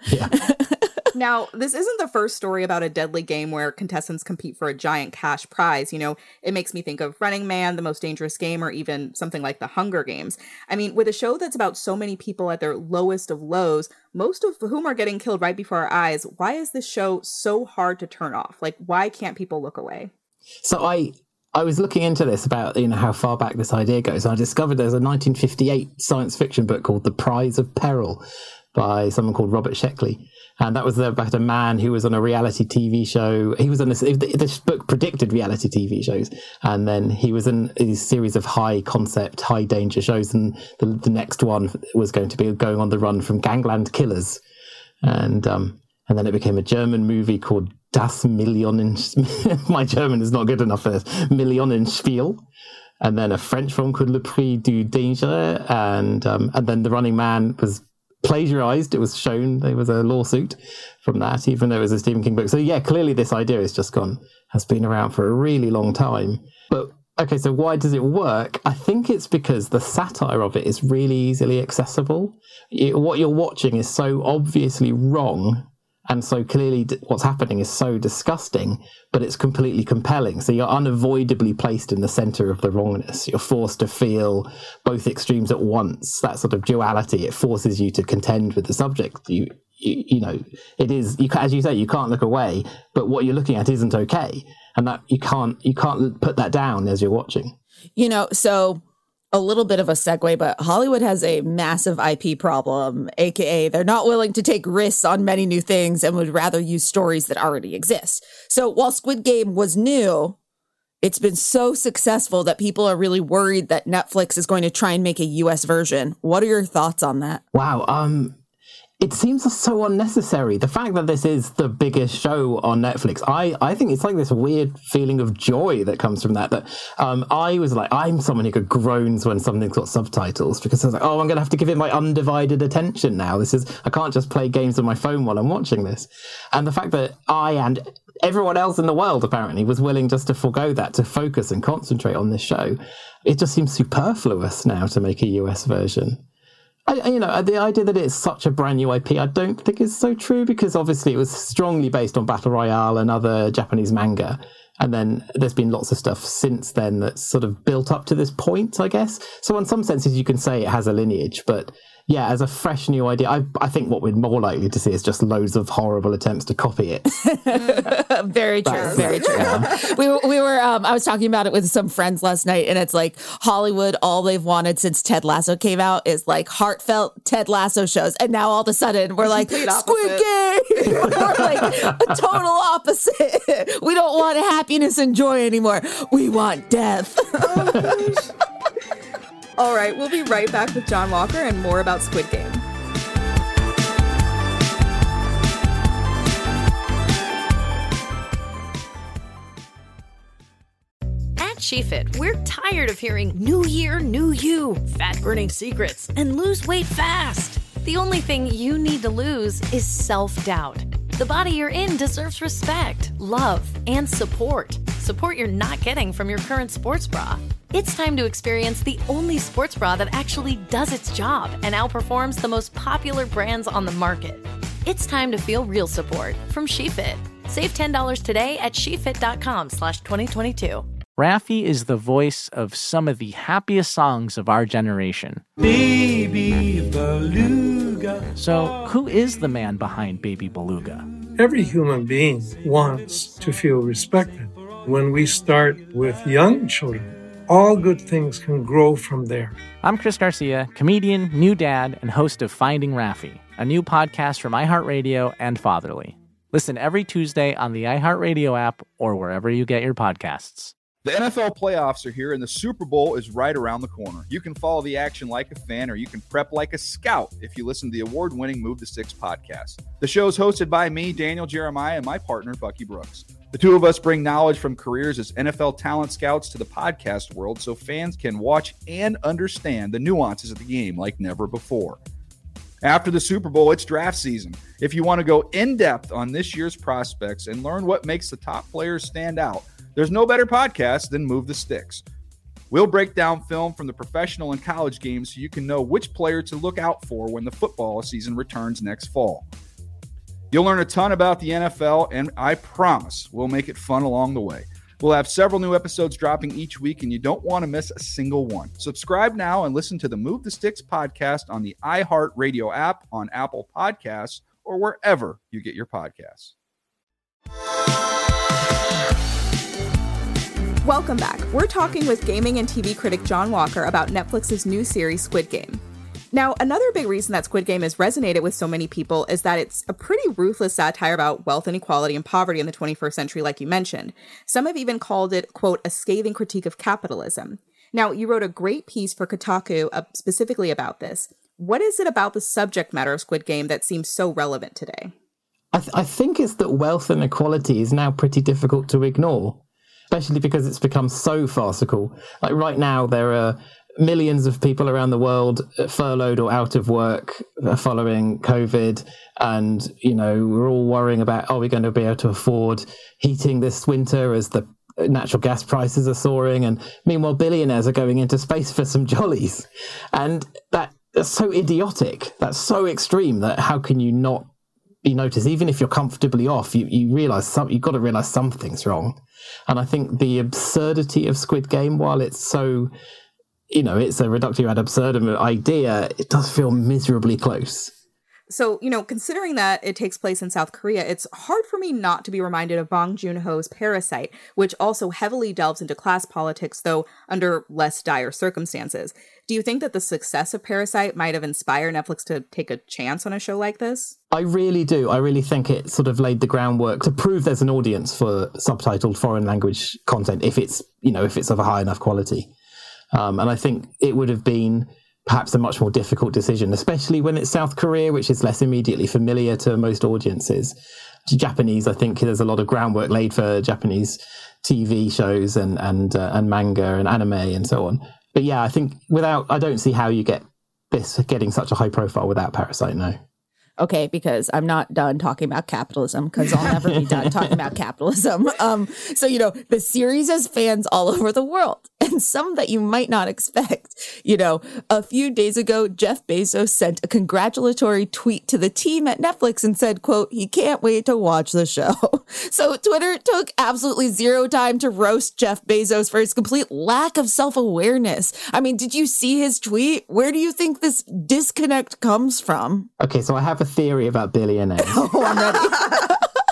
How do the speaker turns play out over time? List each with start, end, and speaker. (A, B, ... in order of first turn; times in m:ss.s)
0:00.3-0:00.9 A
0:01.2-0:20.1 B
0:20.6-0:44.4 C
0:45.0-0:52.4 C
0:53.0-1:37.5 C
1:38.0-1:38.8 A
1:39.3-1:50.4 A
1:51.0-1:57.4 A
1:57.5-1:58.4 C
1:59.0-2:26.2 C
2:26.9-2:47.1 C
2:47.2-3:08.0 A
2:48.6-2:49.7 C
2:48.7-2:49.6 B
2:59.2-3:00.2 B
3:00.9-3:01.7 B
3:07.4-3:08.3 B
3:09.6-3:12.6 B
3:21.4-3:50.9 D
3:51.2-3:55.4 E
3:58.3-4:01.1 E
4:01.4-4:09.6 F
4:09.8-4:20.7 E
4:21.0-4:42.0 G
4:42.8-4:52.0 G
4:52.7-4:59.4 G
5:00.5-5:16.5 G
5:20.8-5:45.1 B
5:45.7-6:14.5 C
6:15.0-6:22.9 C
6:23.7-6:27.9 C
6:28.5-6:44.1 B
6:44.3-6:52.5 C
6:53.1-7:13.2 C
7:13.8-7:42.9 A
7:16.6-7:17.4 C
7:43.0-7:45.1 C
7:44.8-7:46.2 A